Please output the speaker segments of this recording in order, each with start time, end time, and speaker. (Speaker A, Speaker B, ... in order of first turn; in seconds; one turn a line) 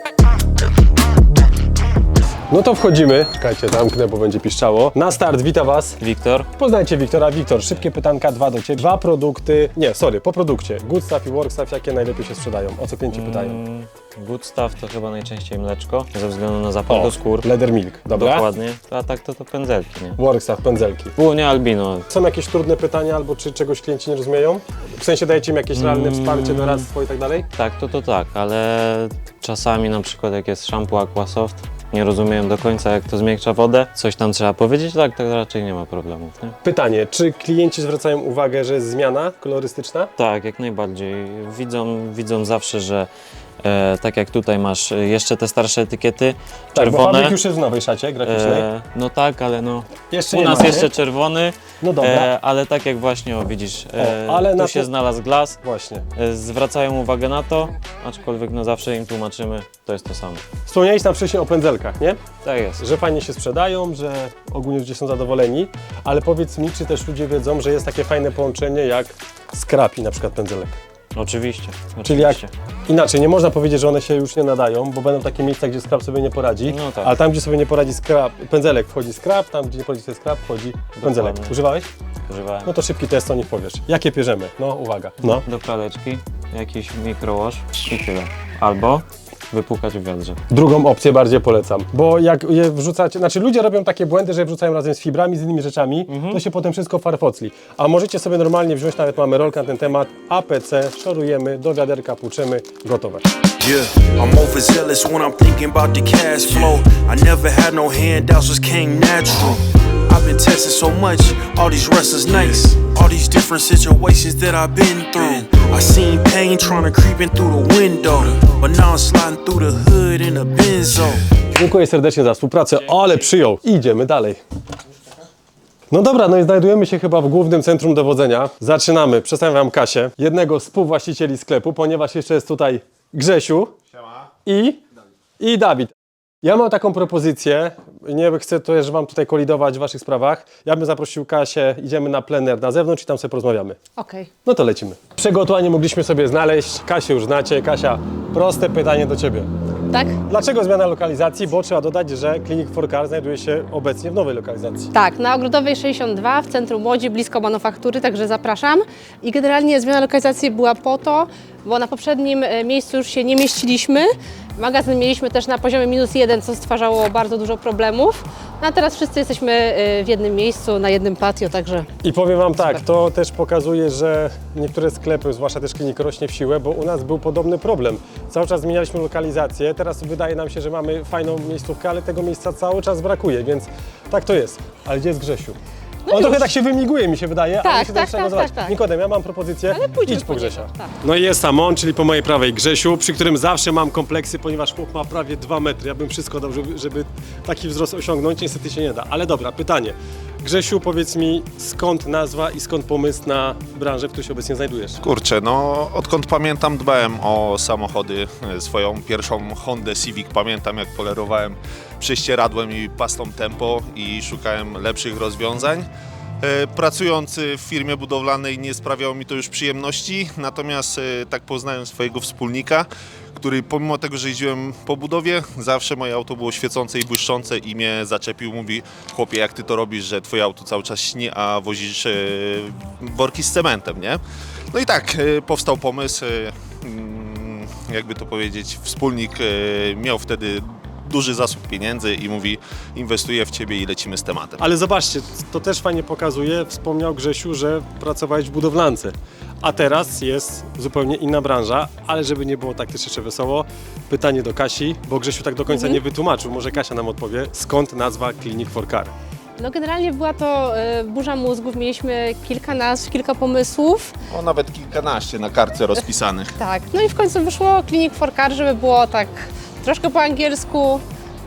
Speaker A: 2.5-6.0
Speaker B: 6.0-6.5
Speaker A: 6.5-13.6
Speaker B: 13.1-17.5
Speaker A: 16.9-18.5
Speaker B: 18.1-20.2
Speaker A: 20.2-21.1
Speaker B: 21.2-22.1
Speaker A: 22.1-27.5
Speaker B: 25.7-26.9
Speaker B: 27.5-36.5
Speaker A: 36.6-40.1
Speaker B: 40.2-43.1
Speaker B: 43.6-47.4
Speaker A: 46.7-48.6
Speaker B: 48.2-55.6
Speaker A: 50.1-50.9
Speaker A: 51.8-52.3
Speaker A: 54.0-54.9
Speaker A: 55.6-56.0
Speaker B: 56.1-60.4
Speaker A: 60.6-62.2
Speaker B: 62.4-62.9
Speaker A: 62.8-70.8
Speaker B: 71.1-72.5
Speaker A: 72.0-81.9
Speaker B: 76.7-77.2
Speaker B: 81.0-81.5
Speaker B: 82.3-82.7
Speaker A: 82.6-85.4
Speaker B: 85.2-90.4
Speaker A: 90.5-103.2
Speaker B: 96.1-96.4
Speaker C: 103.6-121.2
Speaker A: 121.5-124.4
Speaker A: 125.9-133.7
Speaker D: 133.9-134.3
Speaker A: 134.4-134.8
Speaker A: 135.4-143.8
Speaker E: 144.0-144.3
Speaker A: 144.4-149.5
Speaker E: 149.9-150.2
Speaker A: 150.2-154.9
Speaker E: 154.9-171.9
Speaker A: 172.0-185.6
Speaker E: 186.1-186.4
Speaker A: 186.1-205.0
Speaker E: 187.6-188.8
Speaker E: 189.7-190.9
Speaker D: 205.0-215.9
Speaker D: 216.4-234.2
Speaker D: 234.7-244.6
Speaker A: 244.6-259.1
Speaker E: 255.7-256.0
Speaker E: 259.6-264.1
Speaker D: 264.3-266.6
Speaker E: 266.6-271.0